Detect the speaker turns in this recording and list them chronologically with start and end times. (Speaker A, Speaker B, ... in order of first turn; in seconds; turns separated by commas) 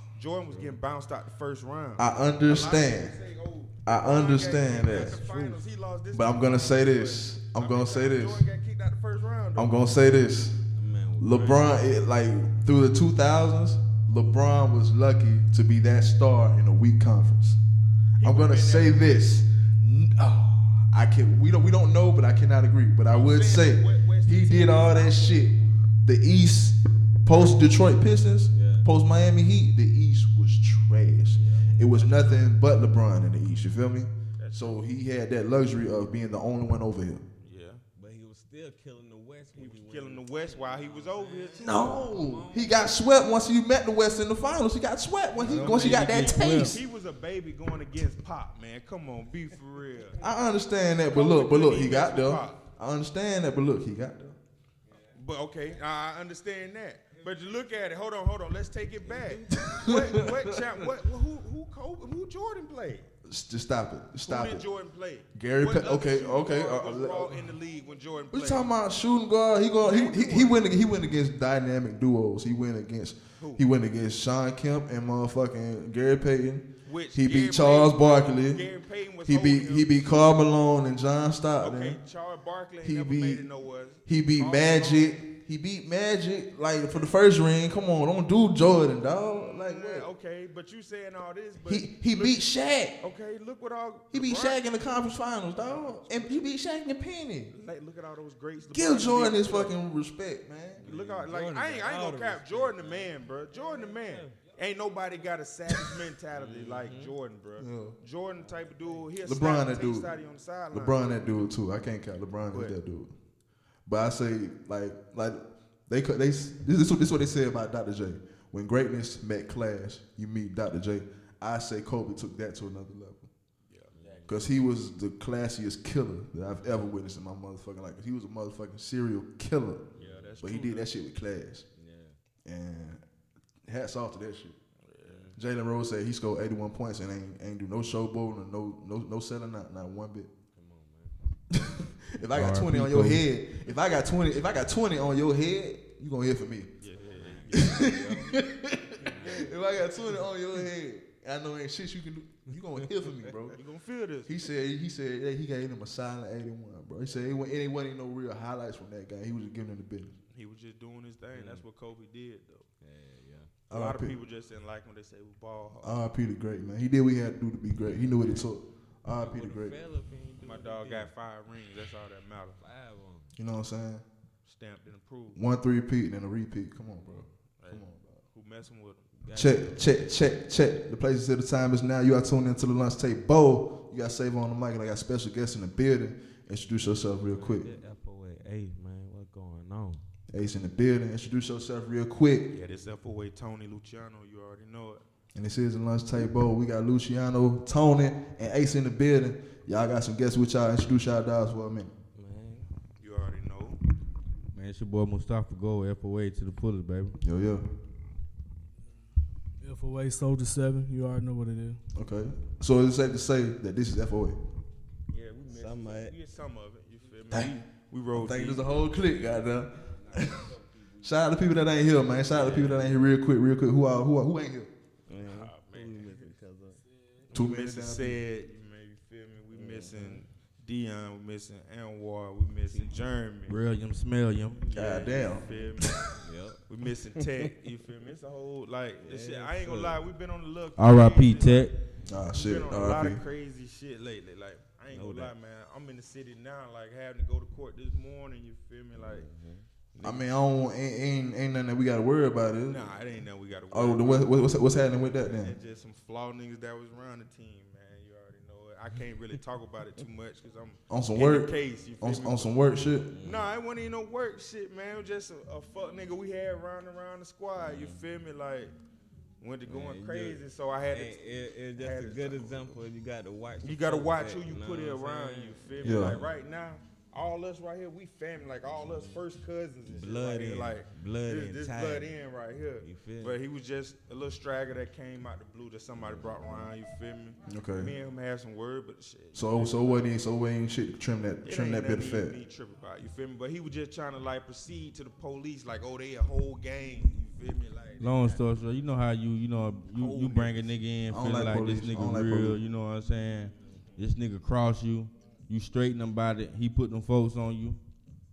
Speaker A: 0.1-9.7, Speaker B: 0.5-0.8, Speaker C: 2.0-3.1, Speaker C: 3.8-5.2, Speaker B: 4.9-5.6, Speaker C: 6.1-8.4, Speaker C: 9.6-10.6, Speaker B: 10.7-11.8, Speaker C: 11.2-17.6, Speaker A: 18.2-19.0, Speaker C: 18.2-37.2, Speaker A: 23.1-25.4, Speaker A: 27.3-27.6, Speaker B: 28.5-28.9, Speaker B: 31.3-32.1, Speaker A: 32.0-32.5, Speaker A: 34.4-34.8, Speaker A: 37.4-37.8, Speaker B: 38.0-42.9, Speaker A: 39.5-42.0, Speaker C: 41.6-46.8, Speaker A: 45.4-50.2, Speaker B: 45.4-46.8, Speaker D: 45.5-46.7, Speaker C: 50.2-54.4, Speaker A: 51.1-52.6, Speaker A: 55.1-63.1, Speaker B: 59.0-60.3, Speaker C: 59.5-60.7, Speaker C: 63.2-64.7, Speaker A: 64.2-68.7, Speaker C: 65.3-67.5, Speaker C: 68.3-78.6, Speaker A: 69.8-70.6, Speaker A: 73.4-73.6, Speaker A: 76.8-80.2, Speaker C: 79.2-82.0, Speaker A: 81.6-85.2, Speaker C: 82.8-83.5, Speaker C: 84.1-90.1, Speaker A: 89.3-92.4, Speaker C: 91.6-92.9, Speaker A: 93.0-94.6, Speaker C: 94.1-97.5, Speaker A: 95.6-96.1, Speaker A: 97.5-99.7, Speaker C: 98.7-100.9, Speaker B: 100.8-104.4, Speaker A: 100.8-111.4, Speaker B: 105.8-107.1, Speaker C: 107.6-108.0, Speaker B: 108.3-109.1, Speaker C: 109.2-110.1, Speaker C: 110.7-113.1, Speaker C: 113.8-123.3, Speaker A: 123.7-123.9, Speaker B: 123.9-124.4, Speaker C: 124.3-129.8, Speaker A: 130.0-130.9, Speaker B: 130.0-130.4, Speaker C: 130.4-131.6, Speaker B: 131.7-132.2, Speaker C: 132.4-133.0, Speaker C: 133.7-134.6, Speaker A: 134.8-135.2, Speaker B: 135.0-135.4, Speaker C: 135.3-140.3, Speaker B: 140.5-141.1, Speaker C: 141.5-146.7, Speaker D: 142.3-143.2, Speaker A: 146.8-147.9, Speaker B: 146.9-148.3, Speaker C: 147.5-153.6, Speaker B: 149.0-149.5, Speaker B: 152.8-153.3, Speaker A: 153.5-154.3, Speaker C: 154.2-160.2, Speaker A: 160.3-162.7, Speaker B: 161.3-161.6, Speaker B: 162.8-163.5, Speaker C: 163.7-164.2, Speaker A: 163.7-166.0, Speaker C: 165.8-169.7, Speaker B: 169.1-171.1, Speaker A: 170.4-172.6, Speaker B: 172.6-173.3, Speaker C: 173.3-174.0, Speaker A: 174.4-175.4, Speaker C: 175.3-178.2, Speaker A: 177.6-179.1, Speaker B: 179.1-179.9, Speaker C: 179.3-187.7, Speaker B: 187.3-190.0, Speaker C: 190.3-192.5, Speaker A: 192.5-195.0, Speaker C: 195.3-201.9, Speaker B: 202.2-202.7, Speaker A: 203.0-203.8, Speaker D: 204.5-207.2, Speaker C: 207.2-207.7, Speaker E: 209.6-211.8, Speaker C: 211.9-214.4, Speaker A: 215.1-218.8, Speaker B: 215.5-216.2, Speaker C: 217.3-217.6, Speaker C: 218.1-224.7, Speaker B: 218.9-221.2, Speaker B: 221.9-223.0, Speaker B: 225.1-226.8, Speaker A: 225.2-226.3, Speaker C: 227.3-228.2, Speaker A: 227.3-233.6, Speaker B: 229.5-230.3, Speaker B: 232.7-232.9, Speaker D: 233.5-234.6, Speaker A: 234.6-236.1, Speaker C: 234.7-236.1, Speaker B: 236.2-236.6, Speaker A: 236.7-249.3, Speaker B: 237.1-237.5, Speaker B: 239.0-240.0, Speaker D: 240.8-241.7, Speaker B: 242.0-242.3, Speaker C: 242.1-243.2, Speaker B: 244.9-245.3, Speaker B: 248.9-250.2, Speaker C: 250.0-252.9, Speaker A: 252.6-254.5, Speaker C: 253.7-255.5, Speaker A: 255.1-262.5, Speaker C: 260.9-263.1, Speaker B: 263.1-263.5, Speaker A: 263.2-268.7, Speaker B: 267.6-268.0, Speaker A: 269.4-271.2, Speaker B: 269.6-276.2, Speaker A: 271.7-272.8, Speaker A: 273.6-290.1, Speaker C: 275.8-276.2, Speaker B: 278.8-279.1, Speaker B: 279.9-282.1, Speaker B: 282.8-283.4, Speaker B: 285.9-286.7, Speaker C: 287.5-287.9, Speaker C: 289.3-292.3, Speaker A: 291.4-298.4, Speaker D: 298.0-307.8, Speaker A: 299.9-300.8, Speaker C: 301.1-302.6, Speaker B: 303.6-303.9